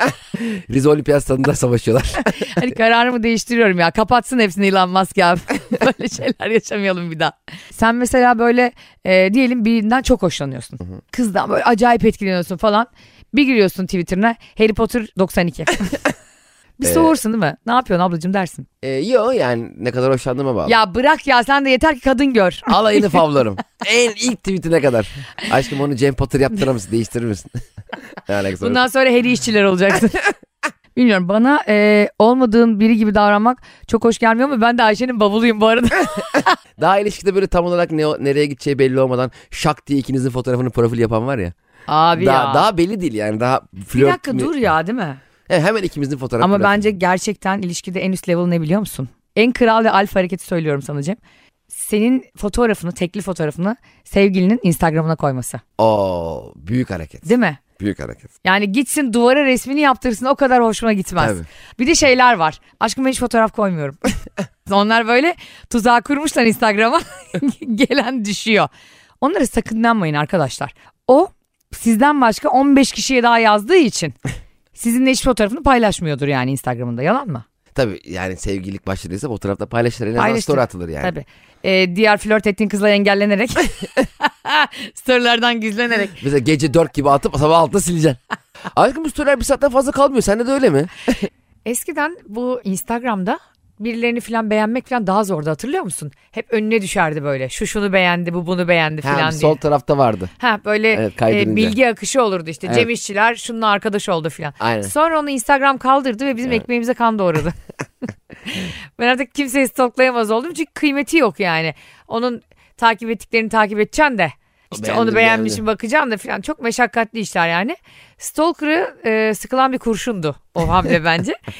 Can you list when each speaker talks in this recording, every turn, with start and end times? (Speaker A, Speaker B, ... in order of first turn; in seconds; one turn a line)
Speaker A: 0.4-2.5
Speaker B: 2.2-15.9
Speaker B: 16.8-18.7
Speaker A: 16.8-17.1
Speaker A: 18.8-20.8
Speaker B: 20.6-23.2
Speaker A: 22.7-27.5
Speaker A: 28.2-28.8
Speaker B: 28.6-30.3
Speaker B: 30.9-36.5
Speaker A: 36.8-41.5
Speaker B: 41.9-42.7
Speaker A: 42.2-44.5
Speaker B: 43.9-45.2
Speaker A: 45.5-46.9
Speaker B: 46.4-51.2
Speaker B: 51.7-55.6
Speaker A: 55.8-58.2
Speaker B: 57.2-57.6
Speaker B: 58.4-64.0
Speaker A: 61.2-61.5
Speaker B: 64.7-68.7
Speaker B: 69.2-74.1
Speaker B: 74.8-77.4
Speaker A: 77.7-81.1
Speaker B: 80.2-86.2
Speaker A: 86.2-88.2
Speaker A: 88.7-91.2
Speaker B: 91.7-99.6
Speaker A: 99.0-100.3
Speaker B: 100.4-107.5
Speaker A: 100.9-101.7
Speaker A: 104.6-104.9
Speaker B: 108.5-121.4
Speaker A: 114.7-115.6